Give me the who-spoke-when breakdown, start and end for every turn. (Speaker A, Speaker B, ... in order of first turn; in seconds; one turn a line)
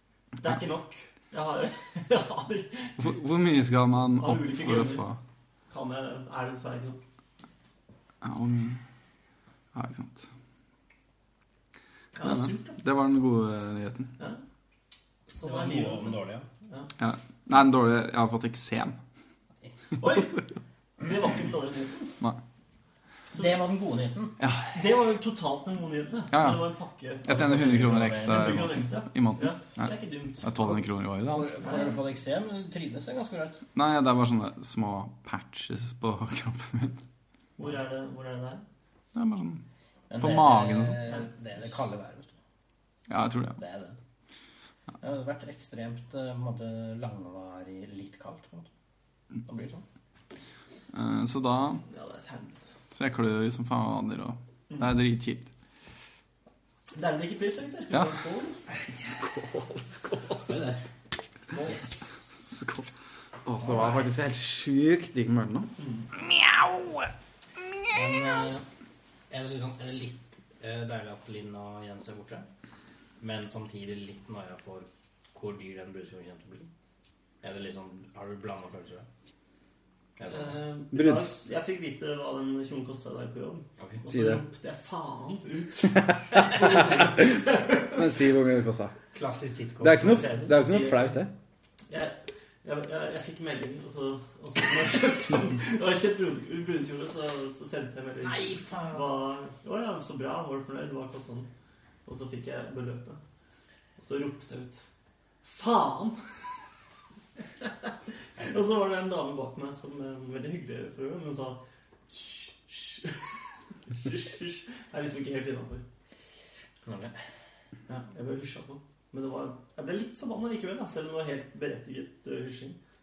Speaker A: 0.4-3.0
Speaker B: 3.0-5.2
Speaker A: 4.2-5.0
Speaker A: 5.7-7.0
Speaker B: 8.2-8.8
Speaker B: 9.7-10.3
Speaker A: 12.1-12.8
Speaker B: 12.2-14.2
Speaker A: 15.3-16.9
Speaker C: 15.4-16.5
Speaker B: 17.0-19.0
Speaker A: 20.0-20.4
Speaker A: 21.0-22.1
Speaker C: 23.3-24.4
Speaker B: 24.4-24.8
Speaker A: 24.7-30.6
Speaker B: 26.3-26.7
Speaker B: 27.2-31.6
Speaker C: 27.4-28.7
Speaker C: 31.2-33.6
Speaker A: 31.6-31.9
Speaker B: 33.7-37.0
Speaker A: 37.6-38.6
Speaker B: 39.1-39.6
Speaker C: 40.1-42.3
Speaker B: 40.2-41.0
Speaker B: 43.1-43.6
Speaker C: 43.6-44.0
Speaker C: 45.0-48.7
Speaker C: 49.5-49.8
Speaker B: 50.9-51.8
Speaker A: 51.9-52.6
Speaker B: 52.9-55.5
Speaker A: 54.7-55.0
Speaker A: 56.9-58.6
Speaker B: 58.9-60.5
Speaker C: 60.4-60.8
Speaker C: 61.5-62.4
Speaker B: 62.2-62.9
Speaker B: 63.5-68.1
Speaker C: 63.6-64.1
Speaker A: 65.8-66.1
Speaker C: 67.9-68.6
Speaker C: 69.3-72.5
Speaker C: 73.2-76.7
Speaker C: 77.4-79.1
Speaker C: 80.2-80.6
Speaker A: 80.3-88.0
Speaker B: 80.9-81.2
Speaker C: 83.8-84.0
Speaker B: 84.1-84.4
Speaker B: 85.9-87.4
Speaker C: 86.6-87.0
Speaker B: 87.9-89.0
Speaker C: 89.1-90.5
Speaker B: 89.8-91.3
Speaker A: 90.4-91.2
Speaker A: 91.9-101.5
Speaker C: 98.2-99.1
Speaker A: 102.0-103.2
Speaker A: 104.0-104.8
Speaker A: 105.4-106.4
Speaker A: 107.6-115.8
Speaker C: 116.8-117.2
Speaker A: 117.9-122.8